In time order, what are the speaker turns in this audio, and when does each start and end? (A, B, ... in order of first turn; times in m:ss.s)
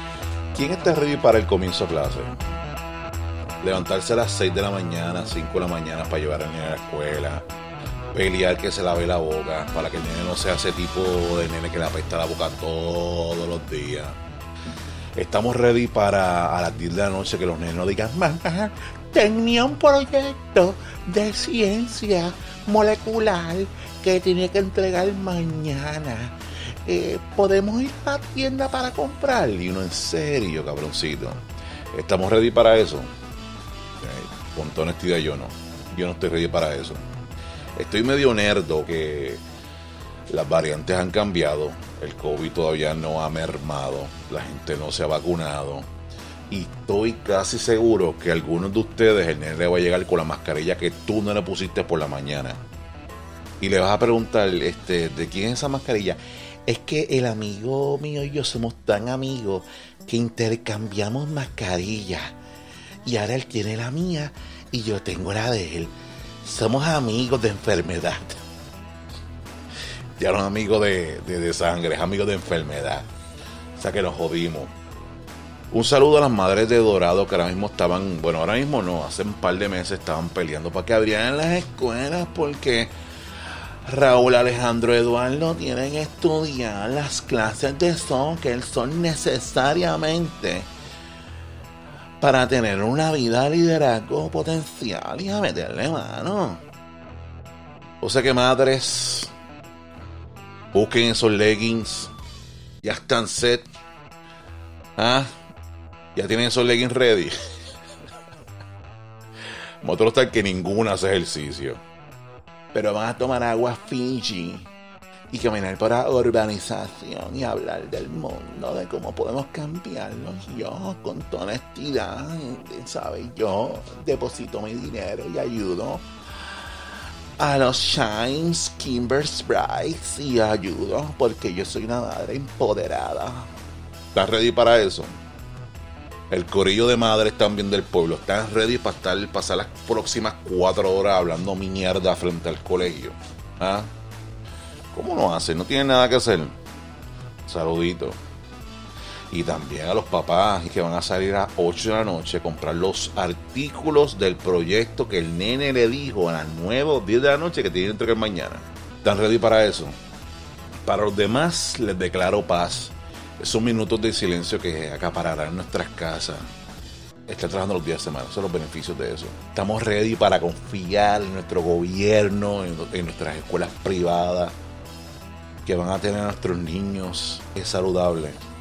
0:00.5-0:02.4 A
0:03.6-0:07.5 A
0:08.1-0:14.2 A
0:15.1-0:33.1 A
0:34.0-0:37.0 A
0:37.8-0:39.4 A
0:40.3-0:45.9 A
0:46.5-0:52.6 A
0:53.6-1:02.4 A
1:03.0-1:08.4 A
1:10.2-1:13.1 A
1:13.7-1:14.7 A
1:15.7-1:30.7 A
1:32.2-1:36.6 A
1:38.0-1:39.3 A
1:40.7-1:42.1 A
1:42.8-1:43.6 A
1:45.0-1:45.3 A
1:46.1-1:47.3 A
1:49.8-1:51.8 A
1:52.7-1:54.7 A
1:55.3-2:06.7 A
2:07.4-2:13.5 A
2:14.1-2:15.1 A
2:16.3-2:23.9 A
2:24.9-2:26.5 A
2:27.4-2:28.2 A
2:29.3-2:40.0 A
2:40.9-2:46.5 A
2:47.3-2:54.6 A
2:55.6-2:58.4 A